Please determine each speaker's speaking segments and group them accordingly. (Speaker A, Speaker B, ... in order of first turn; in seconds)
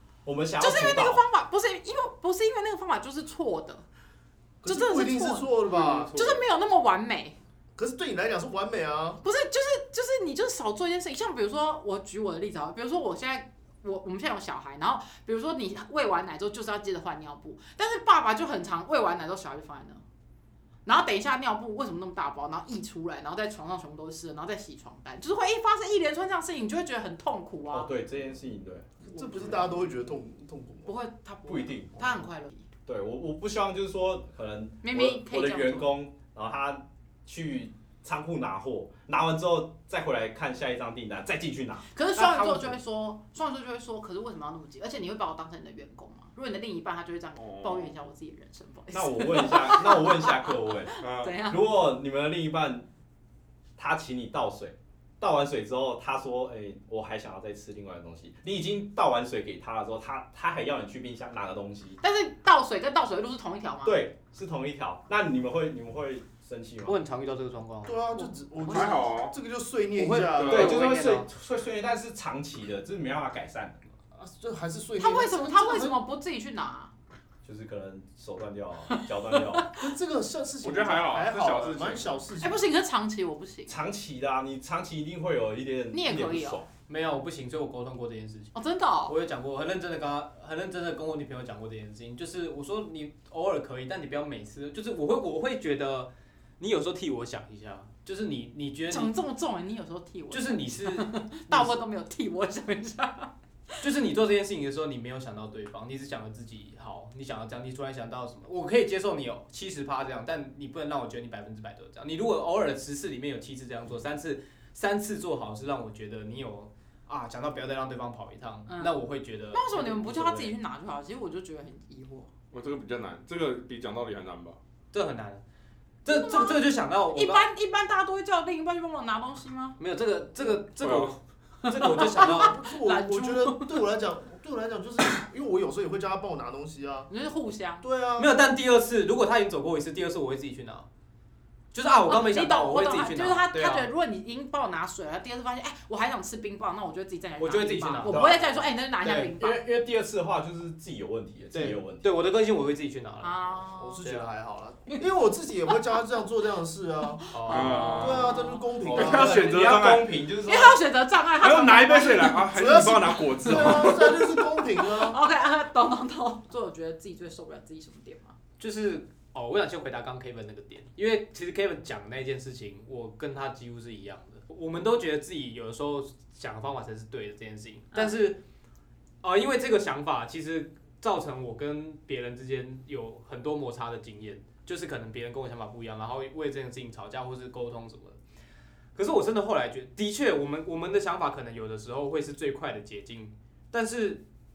Speaker A: 0.2-1.2, 27.7-28.9, 31.4-32.2, 32.9-42.8, 48.9-52.9, 53.8-62.0, 63.8-67.0, 70.5-73.8, 77.4-79.7, 83.7-86.7, 148.1-148.5, 149.3-152.1, 158.8-160.8
Speaker B: 0.6-3.8, 4.6-7.4, 9.2-20.0, 20.8-27.9, 29.1-29.8, 30.9-32.6, 34.8-35.9, 41.9-51.7, 62.0-64.1, 68.6-68.9, 75.0-76.9, 78.9-79.7, 82.4-83.8, 85.9-86.6, 88.5-89.1, 98.9-103.8, 118.7-119.0, 119.5-122.3, 126.1-129.8, 131.6-133.8, 137.1-137.8, 142.1-149.6, 153.2-154.0, 157.2-158.7, 160.4-162.5, 163.2-168.3
Speaker C: 4.6-6.2, 7.8-9.2, 29.1-30.9, 67.8-71.0, 74.1-76.0, 79.7-82.6, 132.0-137.1, 137.8-138.3, 153.8-157.2, 158.0-159.5, 162.5-165.2
Speaker D: 5.7-6.4, 47.4-47.9, 51.0-51.4, 68.7-69.3, 70.3-70.8, 80.6-82.2, 122.5-124.6, 130.8-131.2, 157.5-158.3, 158.9-160.2, 161.4-164.3
Speaker E: 66.8-68.3, 69.9-71.3, 86.9-88.5, 89.0-99.1, 100.3-101.8, 103.8-120.5, 124.9-125.4, 126.0-127.5, 129.8-132.6, 138.2-140.8, 141.7-143.9, 147.4-148.4, 149.0-149.3, 151.5-154.3, 157.3-158.0, 168.6-178.4, 179.2-188.2, 188.9-194.2